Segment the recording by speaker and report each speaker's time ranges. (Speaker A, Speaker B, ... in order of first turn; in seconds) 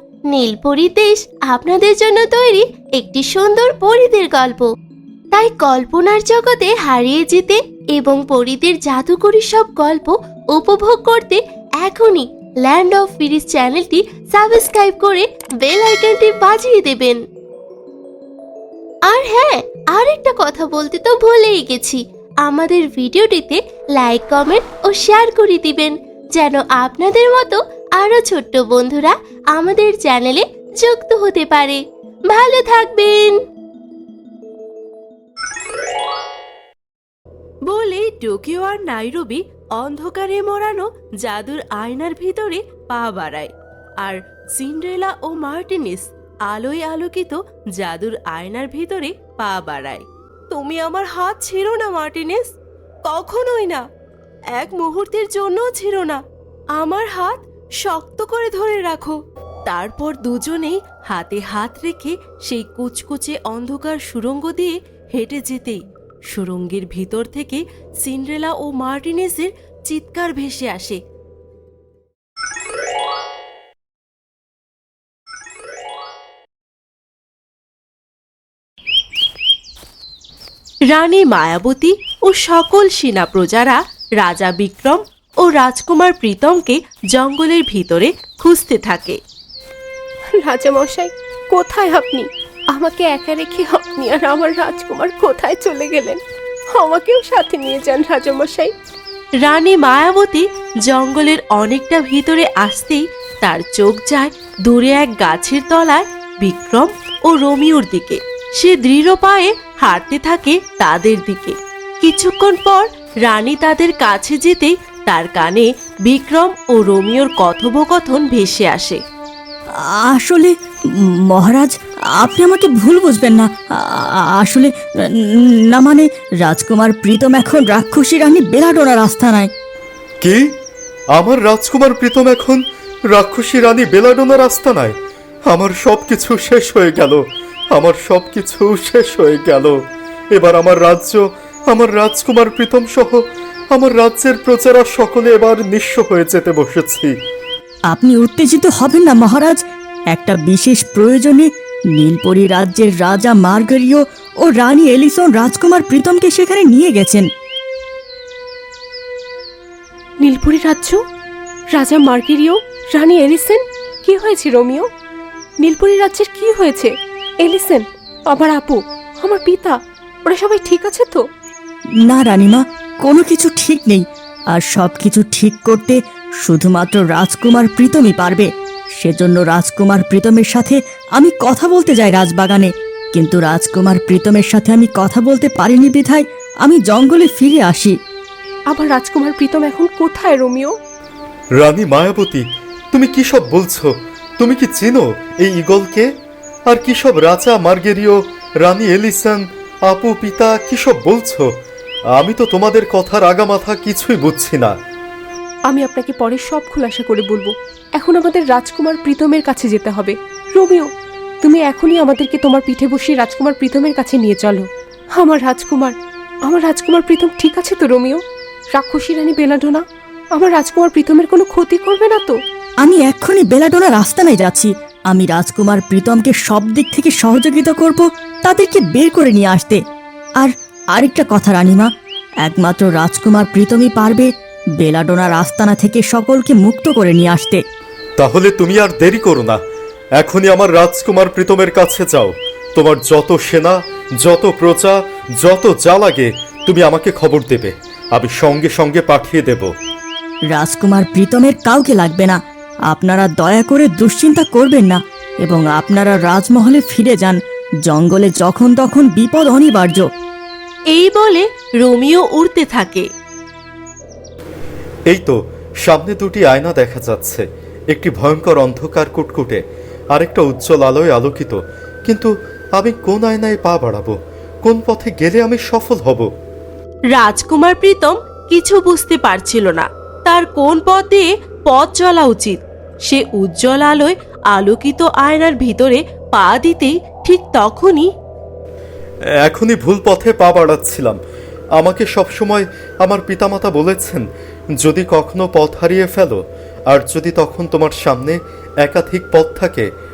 Speaker A: 0.3-4.7, 5.3-17.2, 19.1-33.4, 37.7-52.5, 53.0-53.8, 54.5-56.2, 56.8-71.0, 80.9-89.2, 99.4-119.0, 260.9-263.1, 277.1-288.1
Speaker B: 90.4-96.2, 96.8-98.7, 160.2-161.0, 161.8-164.8, 165.6-166.9, 167.4-169.8, 170.2-171.2, 188.7-190.7, 205.7-210.9, 211.4-214.7, 215.2-215.9, 216.5-218.2, 218.7-219.8, 220.3-222.3
Speaker C: 120.0-120.5, 121.3-129.5, 147.9-149.6, 150.1-157.3, 172.1-178.5, 179.0-187.9, 222.8-229.8, 230.4-231.9, 232.4-237.6, 250.5-252.4, 252.9-260.1
Speaker D: 130.2-130.5, 131.1-135.0, 135.5-137.2, 137.7-139.8, 140.3-143.2, 143.7-147.1, 191.6-196.1, 196.7-201.5, 202.2-204.7, 238.2-239.6, 240.2-249.7, 265.1-269.6, 270.1-276.3, 289.4-291.2, 291.8-294.2, 294.8-299.9